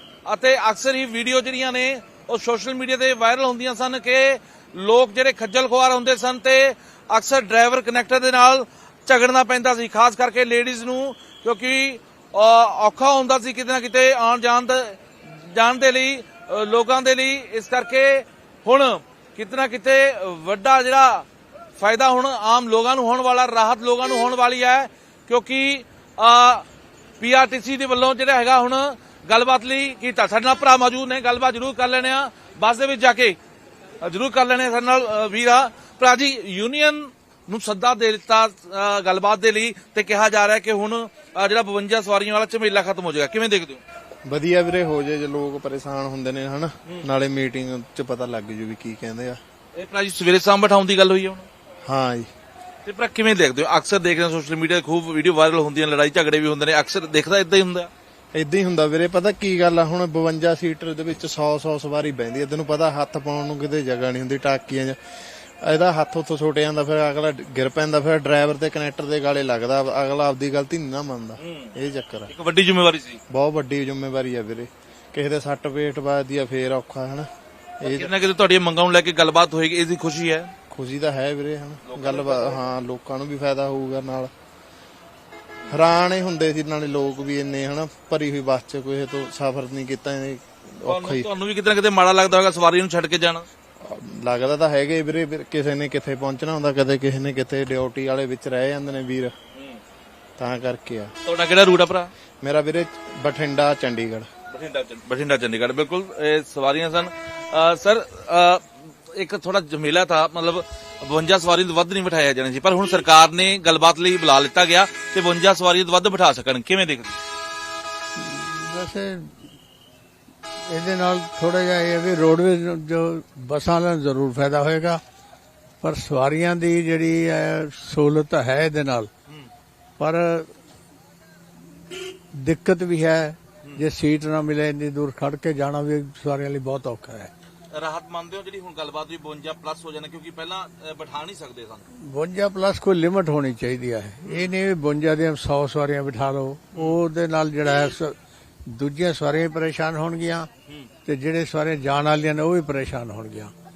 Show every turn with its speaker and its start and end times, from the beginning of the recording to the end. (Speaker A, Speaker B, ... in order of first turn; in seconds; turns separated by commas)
Speaker A: 0.2-21.2, Speaker A: 21.8-26.6, Speaker A: 27.2-33.4, Speaker A: 34.0-43.8, Speaker B: 44.3-49.4, Speaker A: 49.8-51.5, Speaker B: 51.9-52.3, Speaker A: 52.8-57.9, Speaker B: 58.3-65.0, Speaker B: 65.6-72.3, Speaker A: 71.4-71.7, Speaker A: 72.3-73.2, Speaker B: 73.3-77.2, Speaker B: 77.8-78.1, Speaker A: 77.8-80.5, Speaker B: 80.7-84.3, Speaker A: 81.8-82.6, Speaker B: 85.7-91.3, Speaker A: 90.8-93.5, Speaker B: 93.8-99.3, Speaker A: 99.5-99.8, Speaker B: 100.4-101.1, Speaker A: 101.2-102.1, Speaker B: 102.4-104.3, Speaker A: 104.5-117.2, Speaker C: 118.2-119.3, Speaker C: 120.7-125.0, Speaker C: 125.8-129.1, Speaker C: 130.0-130.5, Speaker C: 132.3-137.3, Speaker A: 137.7-141.8, Speaker C: 142.0-150.5, Speaker A: 144.2-144.5, Speaker C: 151.0-153.5